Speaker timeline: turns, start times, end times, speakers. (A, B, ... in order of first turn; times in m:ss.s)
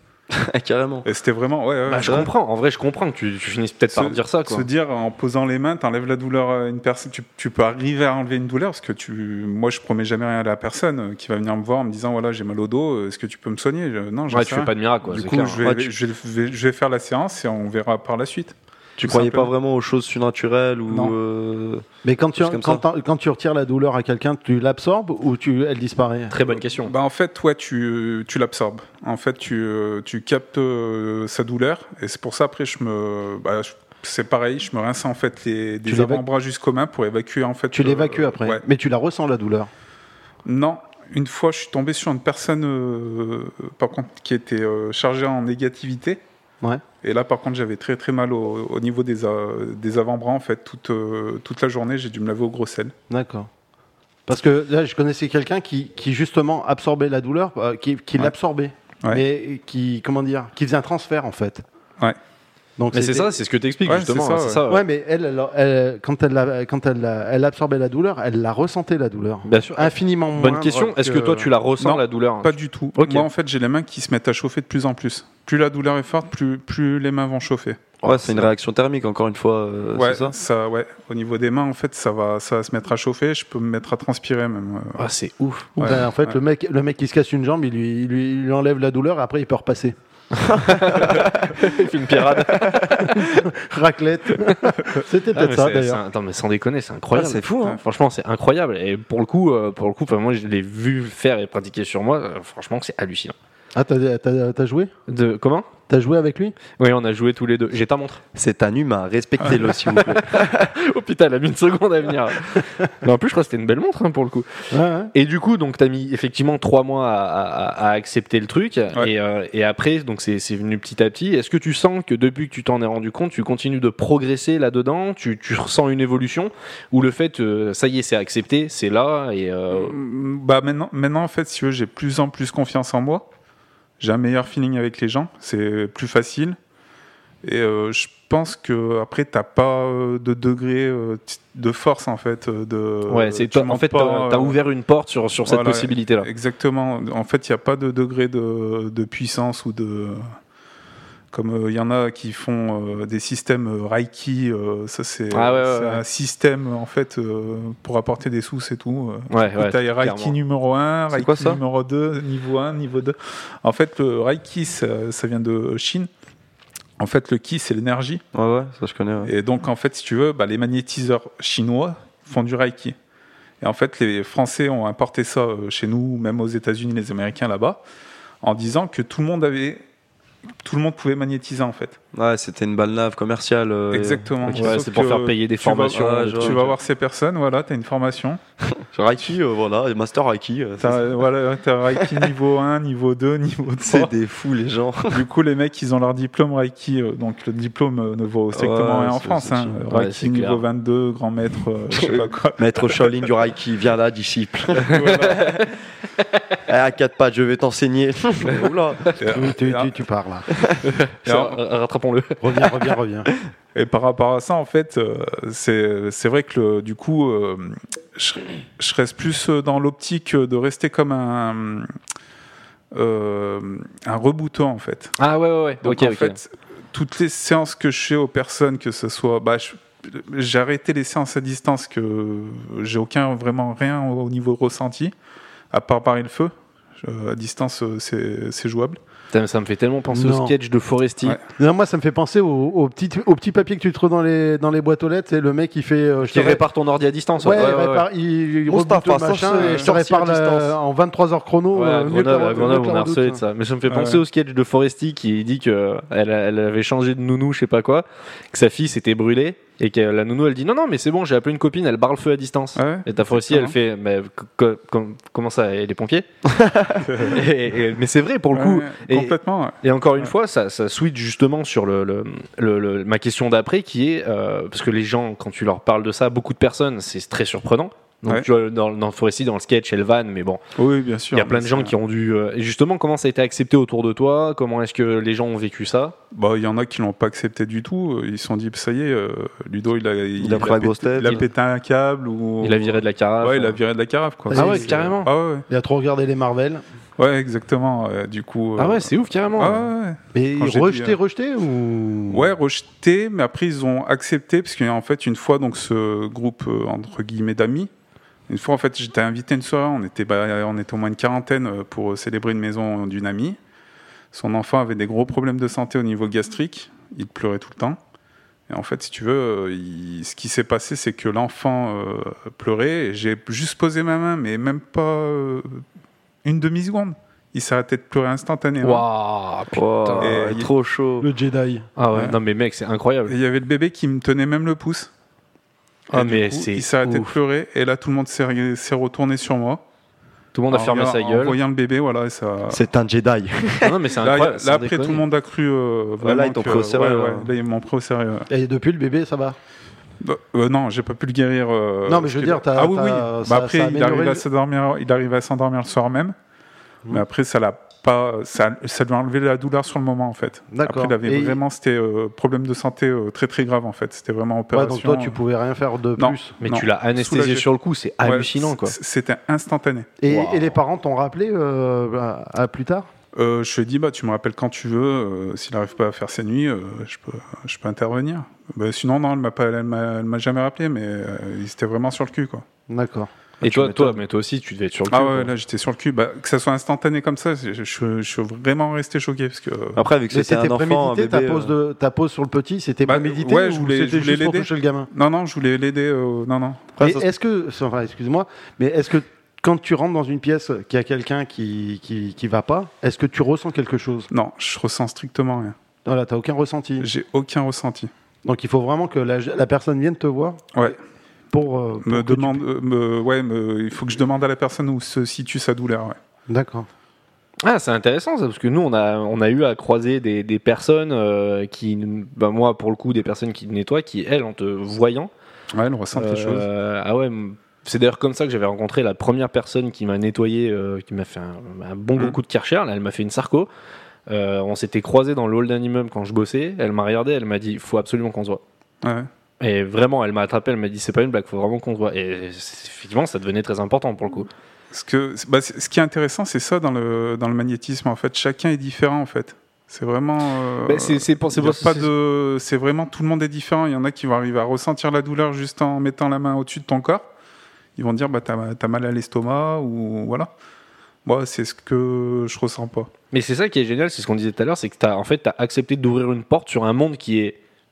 0:00.3-0:01.1 A
0:01.0-0:02.3 B
0:01.9-0:04.7 C
0:02.0-0:02.3 A
0:03.9-0:19.5 B
0:14.3-0:15.6 C
0:15.6-0:15.9 A
0:19.0-0:22.8 A
0:20.9-0:21.2 B
0:22.0-0:26.4 D
0:26.3-0:26.9 C
0:26.8-0:38.6 B
0:35.9-0:36.2 D
0:37.7-0:39.7 D
0:40.4-0:46.2 B
0:47.0-0:52.9 B
0:53.1-0:53.5 D
0:54.3-1:01.6 D
1:02.8-1:03.3 D
1:02.9-1:04.8 C
1:03.9-1:04.6 B
1:04.7-1:11.5 D
1:09.4-1:13.3 C
1:11.8-1:17.9 B
1:18.0-1:18.5 C
1:18.0-1:20.4 A
1:20.0-1:25.1 B
1:25.0-1:25.7 C
1:25.8-1:26.4 B
1:25.8-1:30.0 D
1:30.5-1:31.6 D
1:30.5-1:33.2 C
1:31.0-1:31.5 A
1:32.8-1:36.0 D
1:35.3-1:43.4 C
1:37.1-1:37.8 A
1:43.8-1:44.9 D
1:45.1-1:45.7 C
1:45.9-1:46.6 D
1:46.8-1:48.2 C
1:48.4-1:50.7 A
1:49.9-1:54.5 C
1:54.7-1:55.1 D
1:55.1-2:10.0 C
2:09.7-2:13.3 B
2:14.0-2:16.6 B
2:17.4-2:24.6 B
2:23.1-2:26.3 C
2:25.5-2:30.2 B
2:31.3-2:46.1 B
2:35.3-2:36.0 C
2:39.3-2:40.4 C
2:41.1-2:41.6 A
2:47.0-2:48.2 B
2:48.3-2:49.3 A
2:49.2-2:53.0 B
2:53.6-2:57.8 B
2:58.4-2:59.8 B
3:00.6-3:02.0 B
3:02.1-3:04.8 A
3:03.9-3:08.4 B
3:04.5-3:06.7 C
3:05.9-3:06.6 A
3:08.8-3:11.1 A
3:10.8-3:14.1 B
3:12.0-3:12.3 A
3:13.8-3:15.2 A
3:15.1-3:23.2 B
3:18.5-3:19.8 A
3:19.9-3:20.6 C
3:22.0-3:25.0 A
3:24.8-3:25.6 B
3:25.0-3:26.6 C
3:26.7-3:29.1 A
3:29.2-3:30.0 B
3:29.3-3:30.5 D
3:30.5-3:30.8 A
3:30.8-3:33.0 C
3:31.3-3:31.6 B
3:32.4-3:33.3 D
3:33.8-3:41.9 B
3:42.9-3:45.2 B
3:45.2-3:46.4 C
3:45.8-3:55.1 B
3:55.7-3:59.0 B
3:59.3-4:01.4 C
4:00.1-4:00.6 D
4:01.6-4:06.6 D
4:06.3-4:08.1 C
4:07.4-4:13.4 D
4:08.7-4:10.7 A
4:09.6-4:09.9 B
4:11.7-4:26.3 C
4:13.9-4:14.2 B
4:22.8-4:23.8 B
4:26.5-4:27.0 A
4:27.0-4:27.4 B
4:27.3-4:40.6 C
4:28.5-4:30.3 B
4:40.8-4:41.9 B
4:41.3-4:46.2 C
4:46.3-4:55.6 B
4:50.4-4:51.4 A
4:52.6-4:53.8 C
4:54.5-4:55.1 D
4:54.5-4:55.3 C
4:55.7-4:56.8 D
4:57.2-5:01.2 B
4:58.8-4:59.8 C
5:00.4-5:02.5 D
5:02.3-5:07.9 B
5:08.5-5:13.6 B
5:14.3-5:18.0 B
5:18.7-5:25.8 B
5:26.4-5:29.1 B
5:28.8-5:30.4 C
5:29.7-5:31.3 A
5:30.2-5:30.7 B
5:31.2-5:31.9 D
5:32.0-5:33.3 C
5:33.3-5:35.1 B
5:36.1-5:37.4 C
5:36.1-5:39.8 B
5:40.5-5:41.6 C
5:40.7-5:42.8 B
5:42.7-5:44.0 A
5:43.8-5:45.2 C
5:44.2-5:48.5 B
5:46.2-5:47.5 A
5:48.5-5:49.6 D
5:50.2-5:56.4 B
5:52.1-5:54.4 D
5:57.1-6:05.4 B
6:00.7-6:01.6 D
6:04.7-6:06.5 D
6:06.2-6:07.7 B
6:06.6-6:09.0 C
6:08.2-6:10.1 B
6:10.2-6:13.1 D
6:10.3-6:10.8 C
6:13.4-6:22.6 B
6:22.9-6:23.3 D
6:23.6-6:24.2 A
6:23.6-6:25.5 C
6:25.1-6:30.0 B
6:30.0-6:31.7 A
6:30.3-6:35.1 D
6:33.0-6:37.0 B
6:37.0-6:37.3 A
6:37.0-6:44.3 D
6:44.3-6:45.8 B
6:46.0-6:47.1 D
6:47.0-6:48.1 B
6:48.4-6:50.9 D
6:51.5-6:52.6 D
6:52.0-6:56.2 B
6:56.5-6:56.9 D
6:57.6-7:05.3 C
7:05.7-7:06.7 B
7:06.2-7:13.7 C
7:14.3-7:18.6 C
7:19.0-7:19.3 B
7:19.6-7:24.5 C
7:24.9-7:37.3 B
7:30.8-7:32.1 C
7:38.0-7:40.5 B
7:41.2-7:43.1 B
7:43.3-7:47.6 C